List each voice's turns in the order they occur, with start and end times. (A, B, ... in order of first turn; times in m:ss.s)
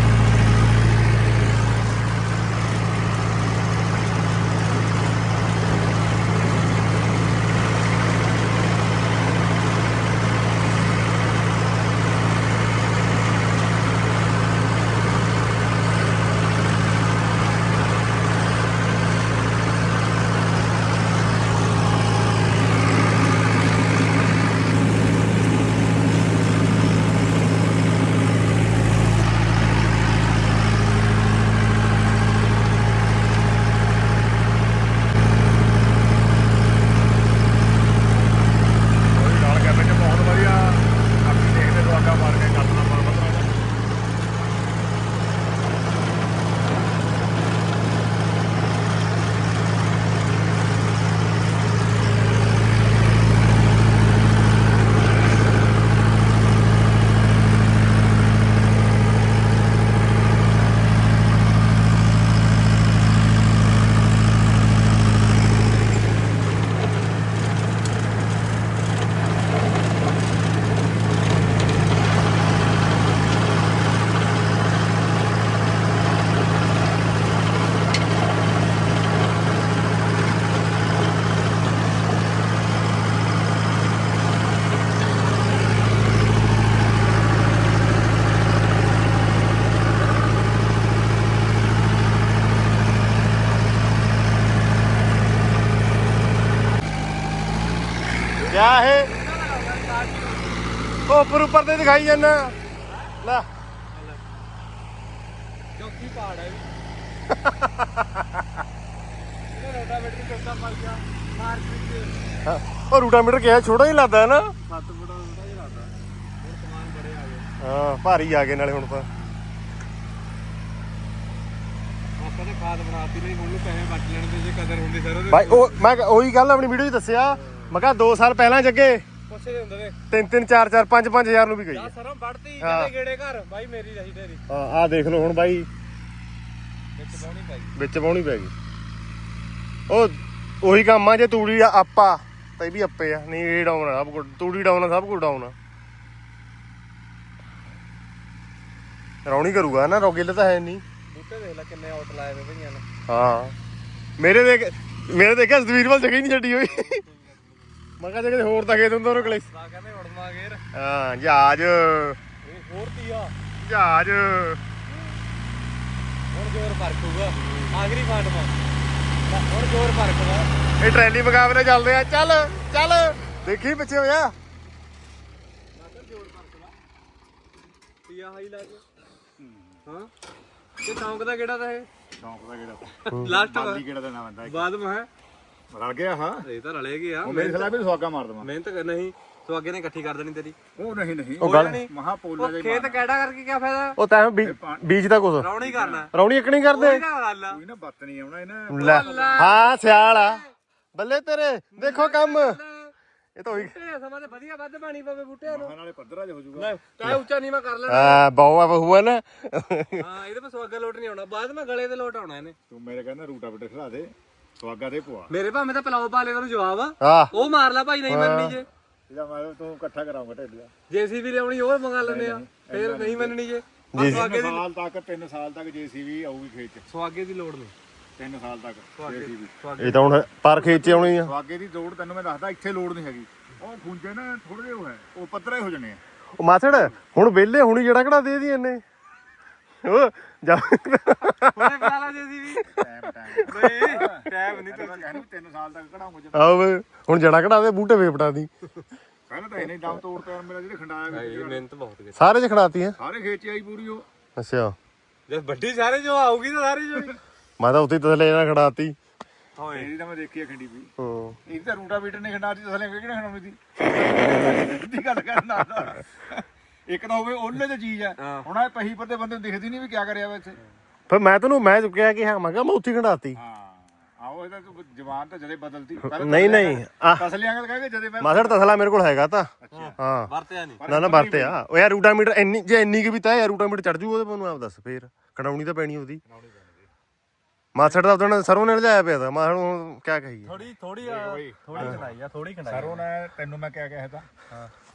0:39.1-0:43.6 A
1:38.5-1:39.1 B
1:39.1-1:40.7 C
1:41.1-1:42.6 B
1:43.2-1:43.5 B
1:43.9-1:44.2 C
1:45.8-1:46.7 C
1:47.3-1:48.5 B
1:49.5-1:52.2 C
1:52.4-1:54.6 B
1:54.7-1:57.5 C
1:57.6-1:59.1 B
2:02.2-2:05.8 C
2:05.3-2:09.0 B
2:09.3-2:10.0 C
2:10.1-2:11.9 B
2:11.7-2:14.4 C
2:12.6-2:12.9 B
2:14.5-2:15.7 B
2:17.0-2:17.7 C
2:17.8-2:18.5 B
2:19.9-2:25.6 B
2:29.2-2:30.8 B
2:31.1-2:32.8 C
2:33.1-2:33.6 B
2:34.2-2:37.0 B
2:36.7-2:37.6 C
2:38.0-2:39.5 B
2:39.2-2:40.6 C
2:40.7-2:42.2 B
2:42.4-2:43.3 C
2:43.6-2:44.6 B
2:46.3-2:48.5 C
2:47.4-2:47.8 B
2:49.3-2:50.5 C
2:50.8-2:54.4 B
2:55.8-2:56.7 C
2:58.1-2:58.8 C
2:59.4-2:59.8 A
2:59.9-3:00.1 C
3:00.8-3:01.9 C
3:02.2-3:04.7 A
3:03.1-3:03.8 C
3:04.5-3:05.1 C
3:05.7-3:06.4 A
3:06.4-3:07.7 C
3:07.2-3:08.5 A
3:08.4-3:10.6 C
3:10.8-3:13.0 A
3:11.4-3:11.8 B
3:11.4-3:14.0 C
3:14.0-3:15.5 B
3:14.4-3:14.8 A
3:15.4-3:16.1 C
3:15.6-3:16.1 A
3:16.1-3:17.0 B
3:16.6-3:17.6 C
3:17.5-3:19.5 A
3:18.7-3:20.4 B
3:18.8-3:20.4 C
3:21.0-3:22.6 B
3:21.8-3:22.9 C
3:23.4-3:23.8 B
3:23.5-3:25.7 C
3:25.5-3:26.8 A
3:26.6-3:28.2 C
3:27.9-3:30.1 B
3:30.0-3:32.6 C
3:32.7-3:35.3 A
3:35.3-3:38.7 C
3:37.0-3:37.3 B
3:38.1-3:38.6 B
3:39.1-3:40.7 A
3:40.9-3:44.6 C
3:42.0-3:43.4 A
3:43.9-3:44.3 B
3:44.0-3:46.8 A
3:46.9-3:47.7 C
3:48.2-3:49.6 A
3:49.0-3:50.2 C
3:49.8-3:51.3 B
3:50.5-3:56.0 A
3:56.4-3:58.8 B
3:59.8-4:01.8 B
4:01.4-4:02.7 C
4:02.8-4:06.5 A
4:03.5-4:05.2 C
4:06.3-4:08.5 B
4:09.3-4:11.6 A
4:11.1-4:12.2 C
4:12.2-4:13.0 B
4:13.0-4:14.1 A
4:14.4-4:14.8 B
4:15.3-4:17.2 C
4:17.6-4:19.0 B
4:19.6-4:19.9 C
4:19.7-4:20.9 A
4:21.0-4:21.4 B
4:21.5-4:30.6 A
4:28.2-4:28.5 C
4:31.1-4:33.4 B
4:33.4-4:38.7 A
4:36.1-4:37.3 B
4:38.2-4:40.3 B
4:39.6-4:40.0 A
4:39.8-4:40.8 C
4:40.8-4:41.6 A
4:40.9-4:46.2 B
4:46.3-4:46.9 A
4:47.8-4:50.6 B
4:50.5-4:53.0 C
4:51.0-4:52.1 A
4:52.7-4:54.3 A